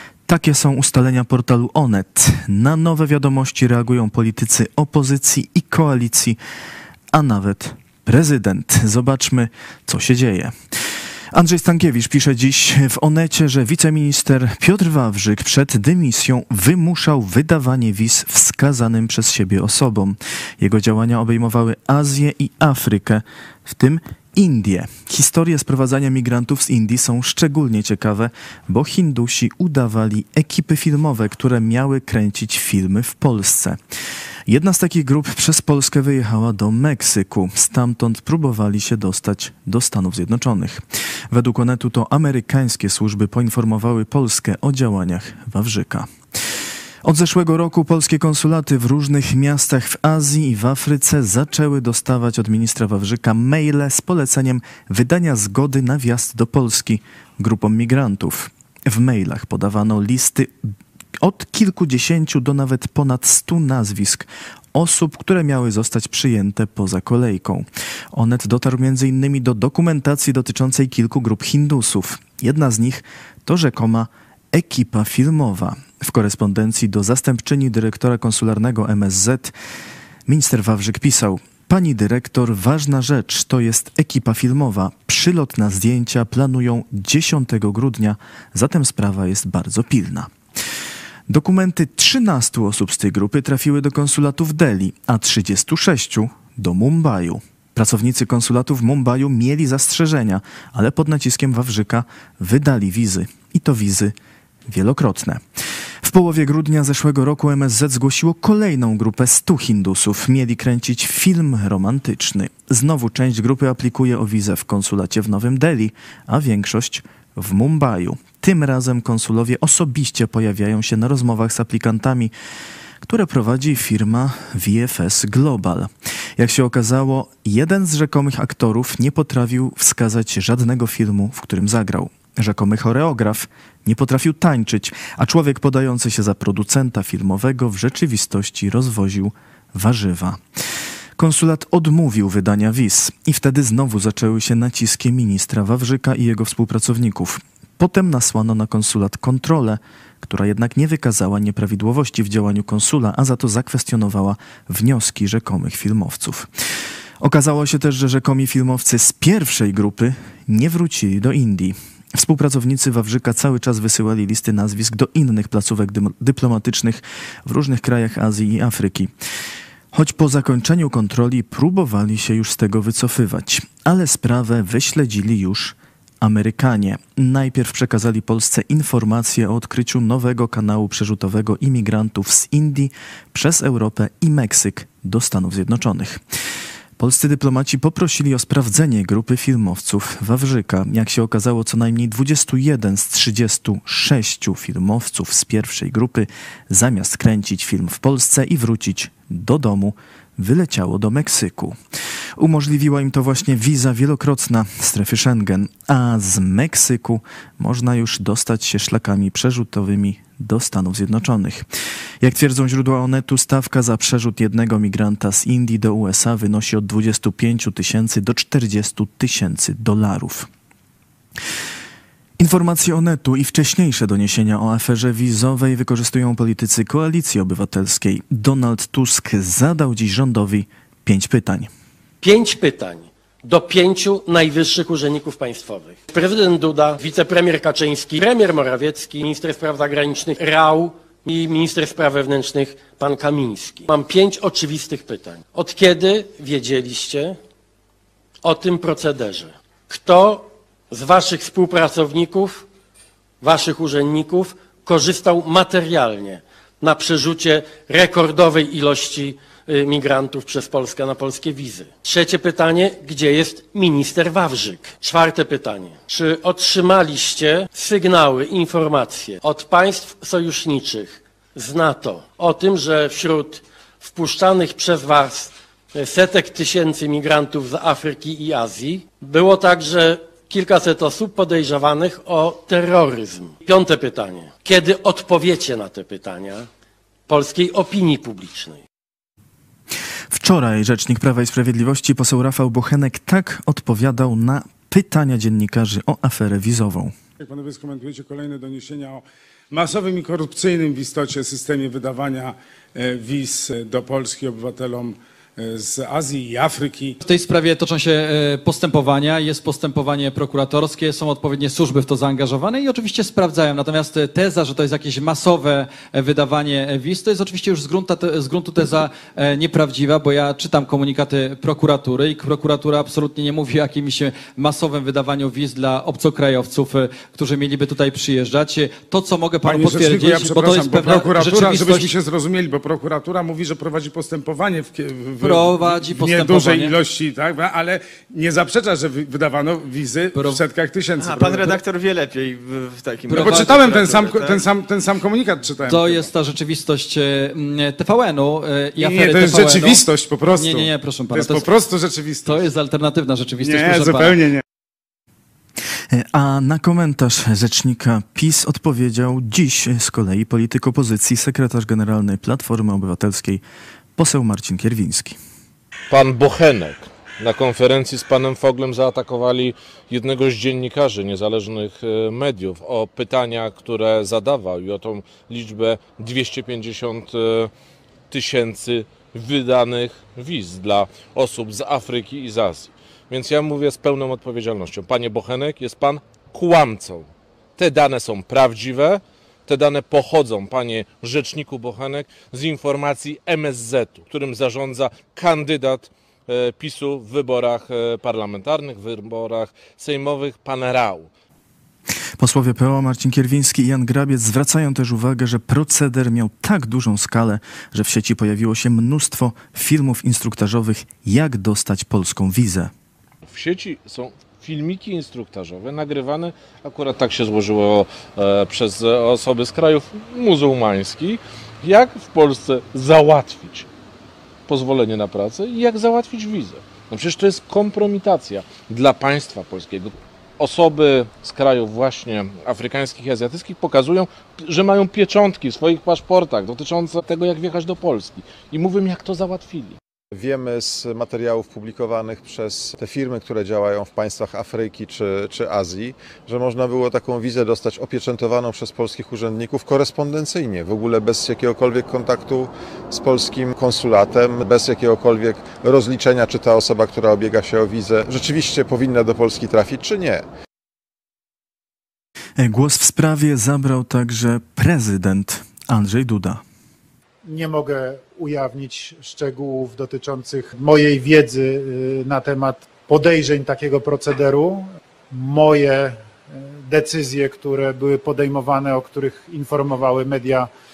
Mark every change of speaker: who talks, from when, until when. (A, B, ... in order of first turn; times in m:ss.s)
0:00.3-0:06.4 A
0:07.1-0:10.5 A
0:11.3-0:33.8 A
0:34.5-0:46.1 A
0:47.0-1:00.5 A
1:01.2-1:19.5 A
1:20.3-1:30.3 A
1:31.3-1:44.1 A
1:44.7-1:45.4 A
1:46.0-2:02.3 A
2:03.0-2:20.4 A
2:21.2-2:36.5 A
2:37.2-2:49.1 A
2:49.9-3:06.2 A
3:07.0-3:21.8 A
3:22.4-3:31.6 A
3:32.2-3:40.5 A
3:42.4-3:51.7 A
3:52.2-4:07.4 B
4:08.4-4:12.6 B
4:13.4-4:46.6 B
4:47.3-4:48.8 B
4:50.3-4:57.1 A
4:57.4-5:07.2 C
5:07.2-5:32.1 D
5:29.6-5:41.8 C
5:35.4-5:37.0 D
5:40.3-5:40.6 D
5:41.2-5:44.6 E
5:43.3-5:43.6 D
5:43.3-5:46.3 C
5:45.8-5:51.8 D
5:49.0-5:52.7 C
5:52.4-5:54.4 D
5:53.6-5:54.6 C
5:56.1-6:03.6 A
6:04.2-6:05.4 A
6:06.1-6:17.7 F
6:18.3-6:41.3 F
6:42.4-6:52.9 A
6:53.5-7:03.9 F
7:04.7-7:20.0 F
7:20.3-7:40.4 G
7:42.6-7:46.6 A
7:47.4-8:00.7 H